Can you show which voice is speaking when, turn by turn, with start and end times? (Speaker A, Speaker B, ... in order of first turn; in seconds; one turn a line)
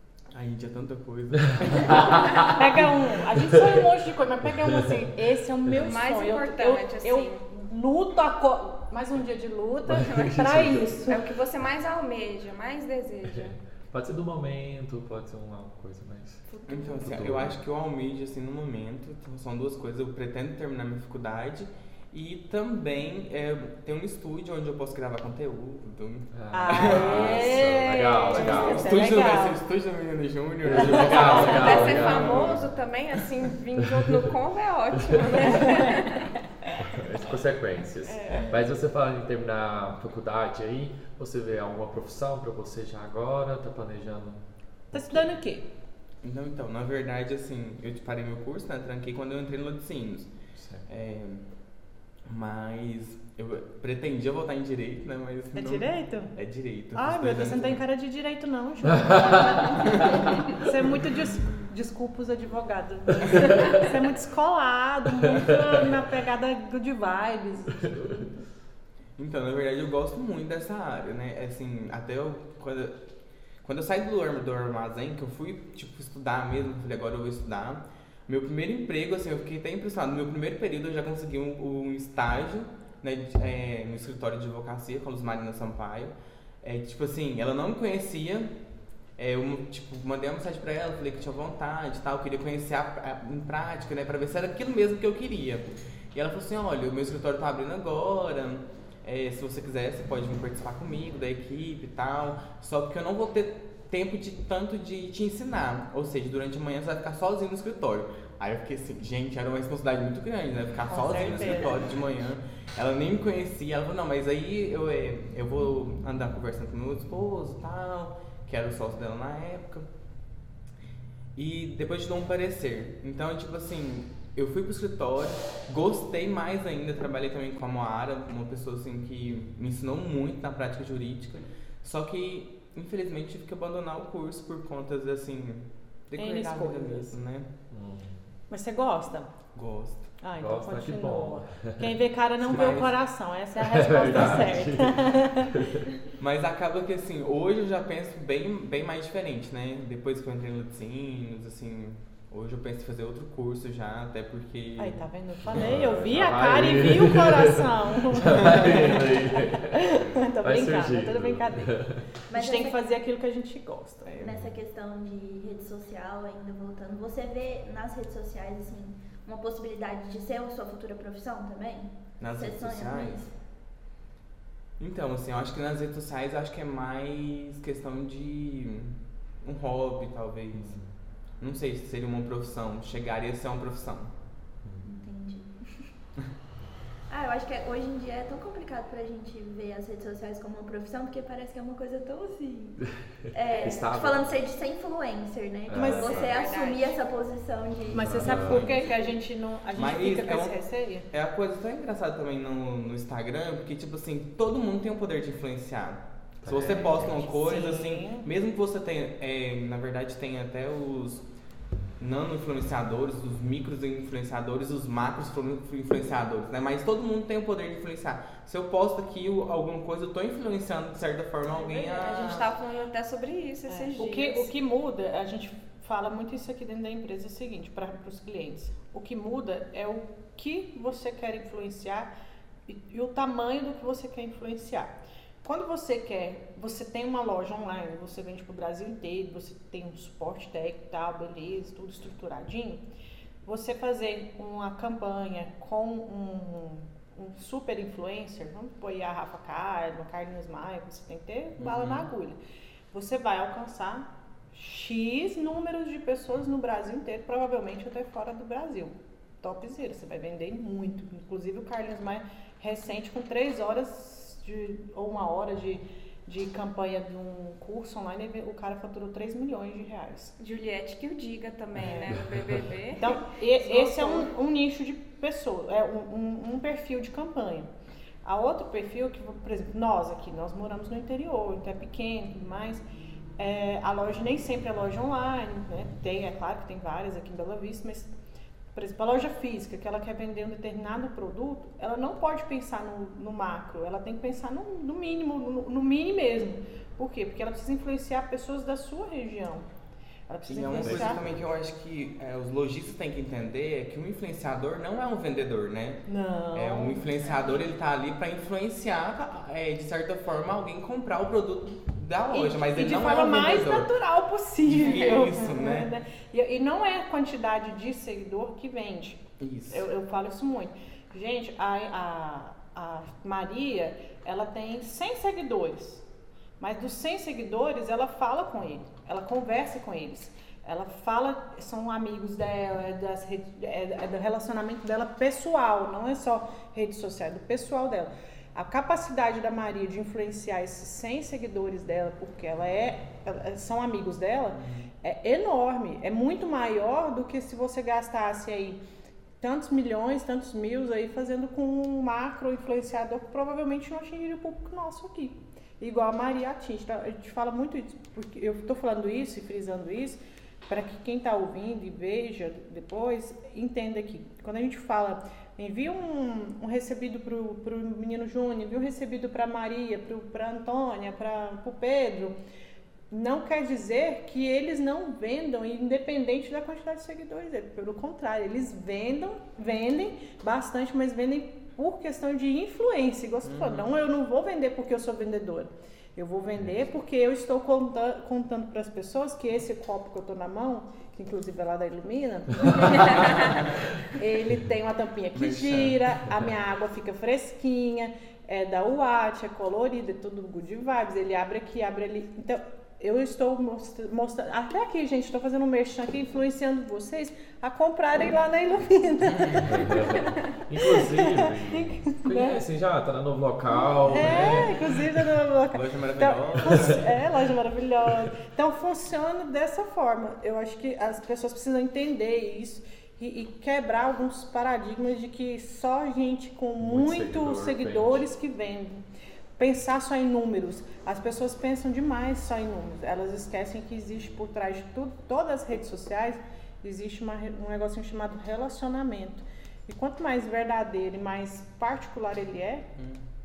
Speaker A: 0.3-2.6
Speaker B: 1.8-2.3
Speaker C: 1.9-11.2
Speaker B: 4.5-5.1
Speaker D: 5.8-7.4
Speaker B: 9.9-11.0
Speaker D: 10.0-10.4
Speaker D: 11.1-13.6
Speaker B: 13.3-16.4
Speaker D: 16.5-17.3
Speaker A: 16.7-27.5
Speaker B: 17.0-17.6
Speaker B: 26.3-29.0
Speaker C: 26.5-29.6
Speaker A: 28.3-32.7
Speaker B: 30.6-32.7
Speaker C: 30.8-31.2
Speaker D: 31.0-36.4
Speaker B: 33.9-34.1
Speaker C: 35.5-36.0
Speaker B: 36.8-44.4
Speaker D: 38.0-38.6
Speaker C: 44.9-45.7
Speaker B: 45.0-45.2
Speaker A: 46.2-50.3
Speaker B: 50.5-50.8
Speaker A: 50.9-51.5
Speaker A: 52.2-57.8
Speaker C: 55.5-56.3
Speaker C: 56.9-68.3
Speaker A: 59.7-60.5
Speaker A: 69.2-73.0
Speaker A: 73.6-88.5
Speaker A: 89.2-119.9
Speaker C: 110.9-111.8
Speaker A: 121.3-137.5
Speaker C: 136.2-137.2
Speaker B: 137.7-138.3
Speaker C: 138.5-139.3
Speaker A: 139.5-140.1
Speaker C: 140.2-145.5
Speaker B: 140.4-141.9
Speaker A: 142.4-143.0
Speaker B: 143.6-145.8
Speaker A: 144.1-144.6
Speaker A: 146.2-155.0
Speaker C: 154.8-164.2
Speaker B: 155.5-162.1
Speaker E: 162.3-162.8
Speaker A: 164.1-164.3
Speaker E: 164.2-173.3
Speaker B: 164.2-164.5
Speaker A: 172.2-173.2
Speaker A: 174.8-184.1
Speaker B: 180.5-180.9
Speaker E: 184.8-185.9
Speaker E: 187.1-198.8
Speaker B: 193.6-194.4
Speaker B: 195.7-196.4
Speaker C: 195.7-196.1
Speaker D: 195.9-196.9
Speaker C: 197.9-201.1
Speaker B: 197.9-198.8
Speaker A: 198.3-198.8
Speaker A: 199.7-211.2
Speaker B: 206.4-207.2
Speaker C: 206.6-208.2
Speaker A: 212.0-222.5
Speaker C: 221.5-221.9
Speaker D: 221.7-224.5
Speaker C: 223.7-232.1
Speaker C: 232.7-242.8
Speaker C: 243.4-252.4
Speaker A: 251.6-252.1
Speaker C: 252.9-270.3
Speaker D: 270.4-274.3
Speaker C: 272.9-277.7
Speaker C: 278.2-282.8
Speaker C: 283.4-288.1
Speaker C: 288.7-299.7
Speaker C: 300.3-301.2
Speaker A: 300.5-313.9
Speaker B: 300.8-301.4
Speaker C: 306.1-307.1
Speaker C: 312.3-326.1
Speaker A: 314.6-315.9
Speaker A: 319.4-319.9
Speaker C: 326.6-348.8
Speaker A: 344.6-344.9
Speaker C: 349.4-372.4
Speaker C: 373.1-410.2
Speaker A: 383.4-383.9
Speaker A: 395.3-396.0
Speaker A: 409.2-409.9
Speaker B: 409.6-415.2
Speaker C: 410.8-412.6
Speaker C: 414.1-429.0
Speaker A: 414.2-414.7
Speaker A: 415.7-417.1
Speaker B: 426.8-428.2
Speaker C: 429.6-442.9
Speaker A: 443.0-443.2